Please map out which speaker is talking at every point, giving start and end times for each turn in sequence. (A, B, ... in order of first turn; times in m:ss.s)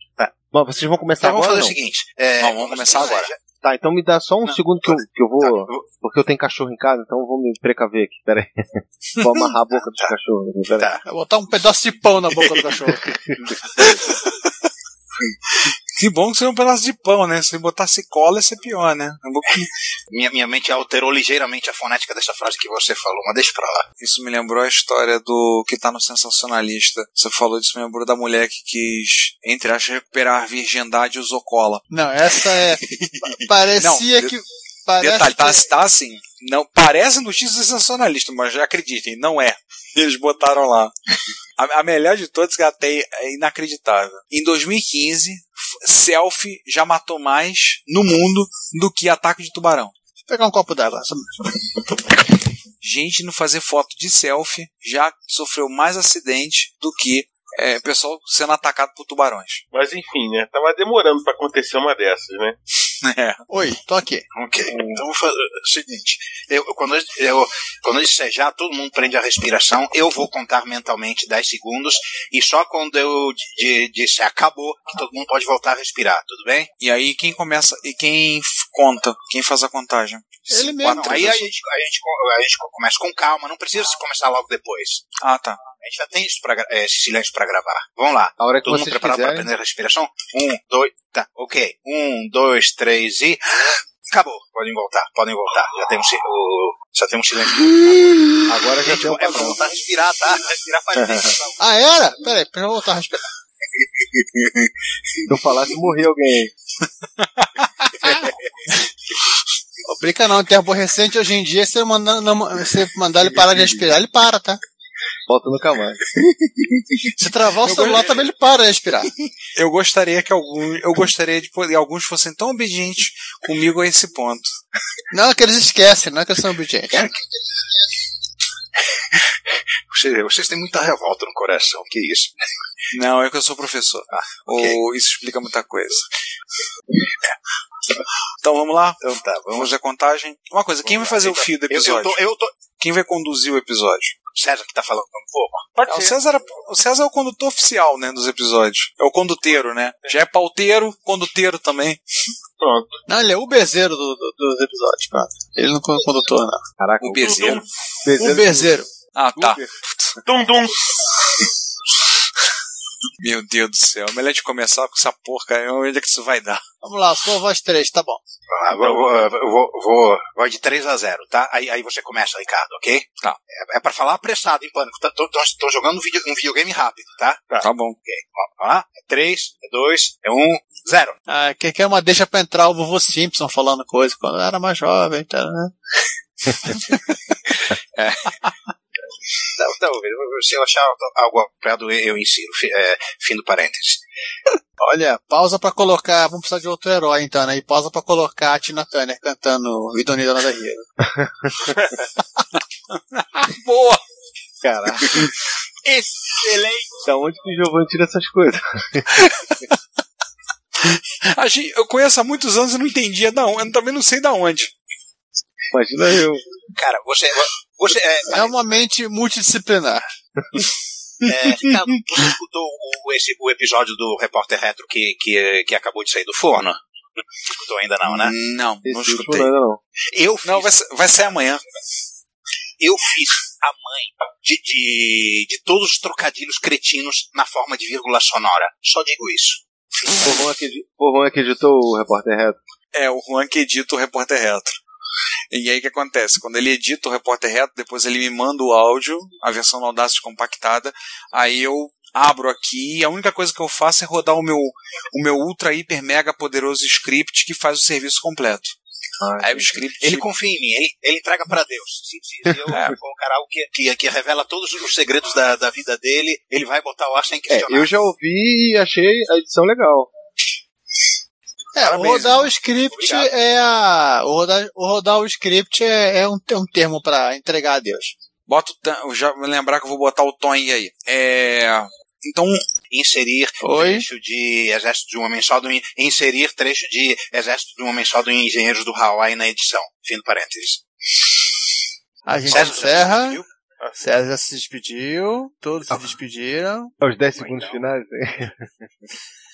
0:00.5-0:01.8 A
0:01.2-0:03.4 B
0:02.4-0:03.3 C
0:03.4-0:08.6 A
0:04.4-0:05.8 B
0:09.2-0:10.9 A
0:10.8-0:11.0 B
0:11.0-0:13.1 D
0:12.9-0:14.0 A
0:13.8-0:14.3 C
0:16.0-0:19.6 C
0:20.1-0:23.8 B
0:24.0-0:31.8 C
0:31.9-0:32.8 D
0:33.0-0:34.3 C
0:33.4-0:35.6 D
0:35.0-0:40.9 C
0:41.6-0:49.9 C
0:50.3-0:51.3 D
0:52.8-0:59.6 C
0:59.7-1:02.6 E
1:03.0-1:03.4 C
1:03.5-1:04.2 D
1:04.3-1:16.7 B
1:16.8-1:21.5 C
1:20.5-1:21.4 D
1:20.9-1:25.0 B
1:25.2-1:25.6 C
1:25.8-1:41.6 B
1:28.4-1:29.5 A
1:38.5-1:39.6 A
1:41.0-1:41.3 A
1:41.6-1:43.2 D
1:45.3-1:46.5 A
1:47.2-1:47.6 C
1:48.0-1:48.3 B
1:49.8-1:54.6 D
1:55.3-1:56.0 A
1:57.2-1:59.1 D
1:57.7-1:58.0 C
1:59.6-2:04.5 C
2:05.1-2:07.1 D
2:06.9-2:07.2 B
2:08.9-2:09.2 B
2:09.9-2:12.3 B
2:12.9-2:16.1 C
2:14.1-2:14.8 B
2:18.4-2:22.2 C
2:19.0-2:19.7 B
2:20.8-2:22.5 B
2:22.8-2:24.1 C
2:24.3-2:25.7 B
2:25.7-2:26.2 E
2:25.9-2:32.0 C
2:32.6-2:32.9 E
2:33.1-2:36.6 D
2:36.8-2:37.3 A
2:37.0-2:37.6 C
2:37.1-2:37.7 E
2:38.0-2:38.8 A
2:38.1-2:38.9 D
2:39.1-2:40.1 C
2:39.4-2:39.7 A
2:40.2-2:40.9 E
2:43.2-2:46.6 C
2:46.8-2:48.2 D
2:48.5-2:57.5 B
2:48.8-2:49.1 E
2:57.6-2:58.0 C
2:58.0-3:01.2 B
3:01.3-3:05.7 D
3:08.0-3:08.4 B
3:09.5-3:14.0 B
3:14.8-3:20.8 D
3:21.2-3:21.5 A
3:22.9-3:24.0 C
3:24.7-3:25.0 D
3:27.0-3:29.3 A
3:30.8-3:34.7 C
3:35.7-3:36.4 A
3:36.7-3:38.8 B
3:38.3-3:40.0 D
3:41.2-3:46.8 B
3:47.5-3:48.3 B
3:48.1-3:49.5 C
3:48.8-3:49.8 A
3:50.1-3:50.7 B
3:50.4-3:51.6 C
3:52.8-3:59.6 B
4:00.2-4:02.6 A
4:02.9-4:04.8 C
4:05.5-4:18.7 C
4:19.2-4:19.8 A
4:19.4-4:20.3 C
4:20.0-4:27.9 B
4:22.7-4:23.0 C
4:27.5-4:30.1 A
4:31.8-4:38.1 D
4:31.8-4:33.3 B
4:38.5-4:42.6 C
4:42.9-4:50.8 B
4:43.6-4:44.1 D
4:52.2-4:53.4 D
4:52.5-4:53.5 B
4:54.0-4:56.9 D
4:57.0-4:58.6 A
4:57.3-4:57.8 B